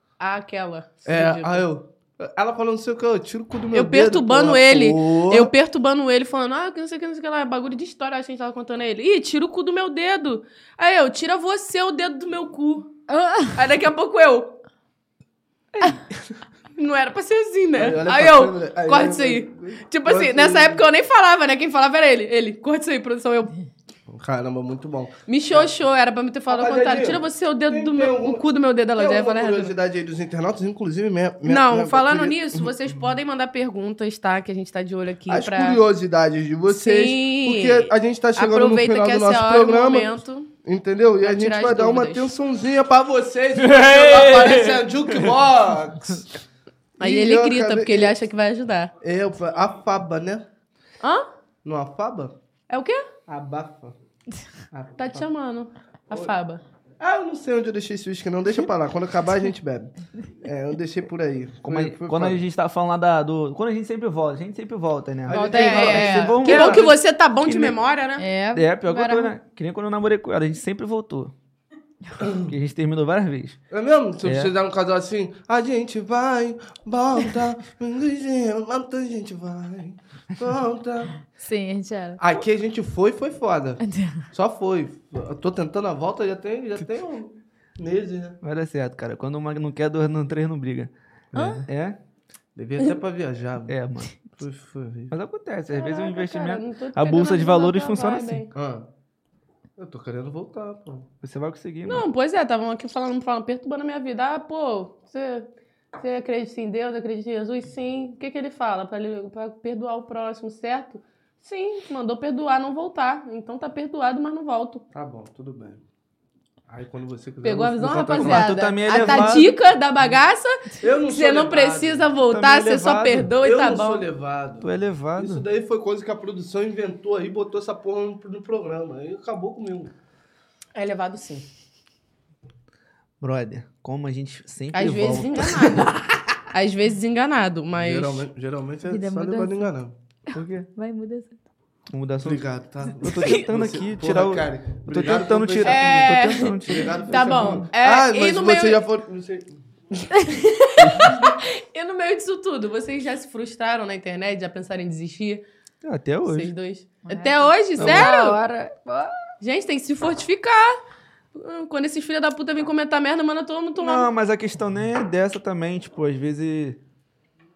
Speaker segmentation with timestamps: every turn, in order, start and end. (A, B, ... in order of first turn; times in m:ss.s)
0:00.2-0:01.6 A
0:01.0-0:05.5 B
0:03.7-0:12.9 A
0:13.1-0:13.6 C
0:13.5-0:14.5 A
0:16.8-0:23.5 A
0:17.7-0:20.8 B
0:24.1-0:25.7 B
0:25.3-0:29.7 A
0:26.5-0:28.4 B
0:29.0-0:33.0 B
0:31.4-0:35.8 A
0:35.3-0:46.3 B
0:36.7-0:40.5 A
0:41.2-0:42.3 A
0:43.6-0:45.3 D
0:47.0-0:48.2 B
0:47.0-0:48.9 A
0:49.0-0:50.4 B
0:51.0-0:51.3 A
0:51.6-0:52.3 B
0:52.7-0:53.0 A
0:53.3-0:54.0 B
0:54.7-0:55.3 B
0:55.0-0:56.6 A
0:57.0-1:02.4 B
1:01.6-1:07.8 D
1:05.3-1:06.8 B
1:05.3-1:06.7 C
1:05.5-1:08.3 A
1:08.2-1:09.3 C
1:08.5-1:11.3 D
1:12.2-1:12.5 B
1:12.4-1:13.6 D
1:13.7-1:21.2 B
1:14.2-1:14.5 D
1:21.4-1:22.2 C
1:22.2-1:23.8 B
1:23.8-1:24.3 C
1:24.3-1:28.4 B
1:28.4-1:30.9 D
1:31.3-1:31.6 B
1:31.3-1:31.6 C
1:31.6-1:32.0 D
1:32.6-1:33.8 B
1:33.7-1:34.2 D
1:34.4-1:35.1 B
1:35.1-1:38.4 D
1:35.7-1:38.5 A
1:38.5-1:38.9 B
1:39.8-1:41.1 B
1:41.2-1:42.1 D
1:41.8-1:54.8 A
1:54.9-1:55.8 B
1:56.7-1:58.5 B
1:57.4-2:04.1 A
1:58.1-1:59.6 D
2:00.8-2:02.1 B
2:02.3-2:03.3 D
2:03.4-2:09.9 B
2:04.6-2:05.4 D
2:10.7-2:11.4 A
2:13.2-2:15.8 D
2:14.7-2:18.3 A
2:17.7-2:19.9 B
2:18.8-2:19.7 C
2:20.3-2:20.7 D
2:20.3-2:21.4 C
2:21.9-2:27.6 D
2:22.2-2:26.1 B
2:25.6-2:28.8 A
2:26.7-2:29.6 B
2:30.2-2:35.4 A
2:30.8-2:31.3 B
2:35.8-2:36.5 D
2:36.2-2:38.4 A
2:37.1-2:39.2 C
2:37.8-2:38.1 D
2:39.4-2:40.8 A
2:41.3-2:44.1 A
2:43.8-2:46.8 D